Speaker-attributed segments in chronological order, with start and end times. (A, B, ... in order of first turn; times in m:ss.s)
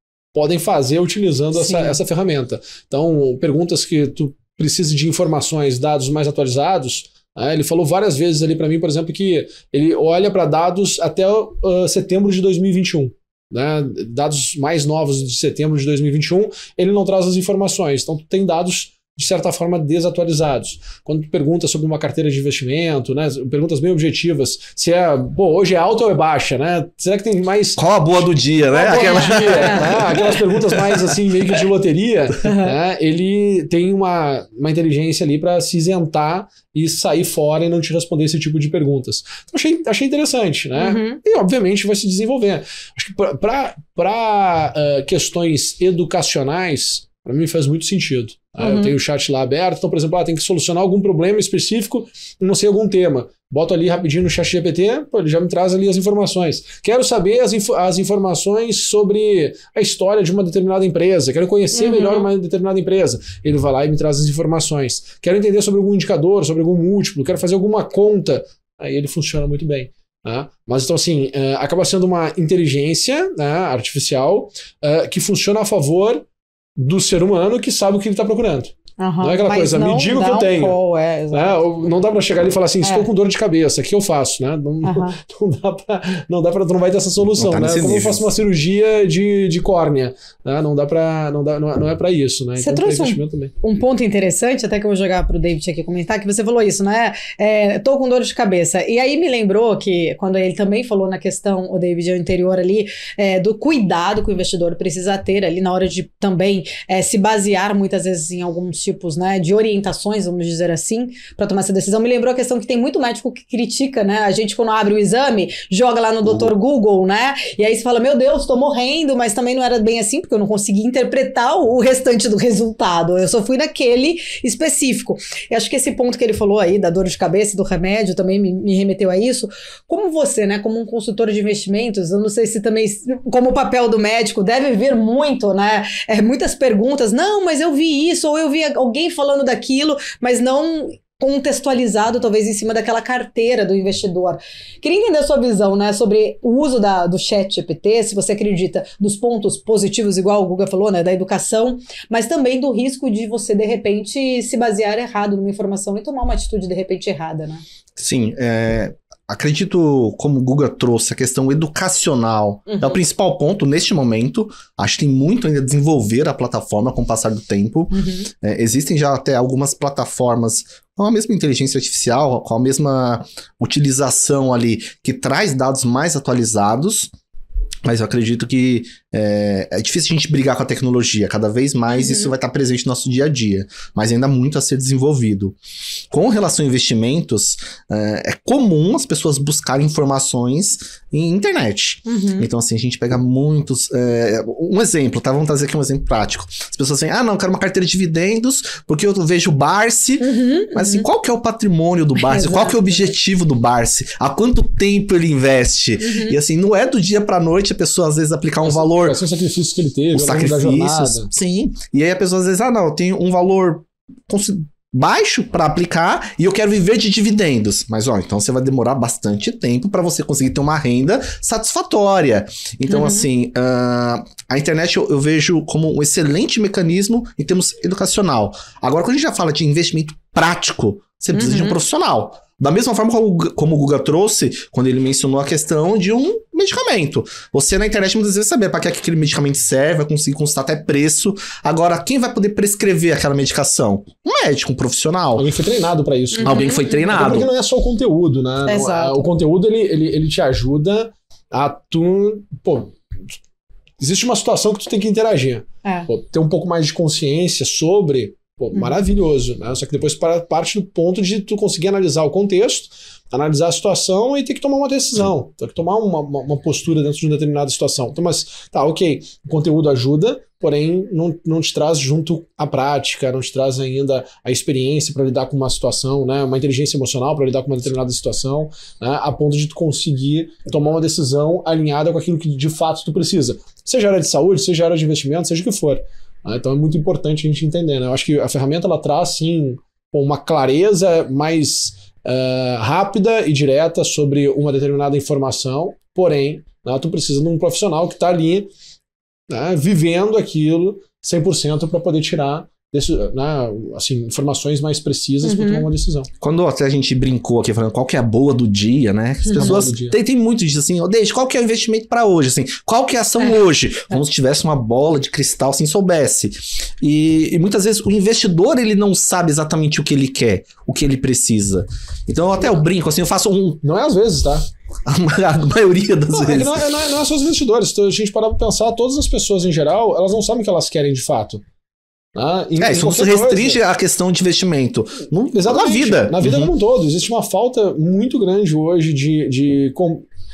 0:00.3-1:16.2 A
0:01.5-0:02.0 B
0:27.8-0:31.2 C
0:28.7-0:30.1 B
0:32.4-0:32.7 B
0:40.8-0:41.2 B
0:48.6-0:49.0 B
1:01.7-1:02.3 B
1:16.8-1:20.7 A
1:19.0-1:21.6 B
1:21.3-1:33.5 A
1:22.8-1:23.1 B
1:24.8-1:25.2 B
1:27.4-1:28.3 C
1:32.6-2:37.6 B
2:38.0-2:57.1 C
2:42.7-2:43.0 B
2:47.9-2:48.3 B
2:57.8-3:05.6 C
3:01.9-3:02.3 B
3:06.1-3:29.2 C
3:12.0-3:12.5 B
3:20.2-3:21.1 B
3:22.2-3:23.1 B
3:26.0-3:26.4 B
3:28.6-3:31.3 A
3:30.1-4:05.5 C
3:42.9-3:43.3 B
3:51.3-3:51.8 B
4:05.4-4:13.0 A
4:06.4-4:07.1 B
4:06.4-4:07.5 C
4:08.6-4:09.2 B
4:14.0-4:58.7 A
4:59.5-5:06.3 A
5:05.4-5:05.9 B
5:06.4-5:23.8 C
5:09.5-5:09.8 B
5:09.5-5:10.1 A
5:23.8-5:24.7 A
5:25.1-5:26.8 C
5:26.3-5:31.6 A
5:32.3-5:33.8 A
5:32.8-5:36.7 C
5:35.5-5:40.2 A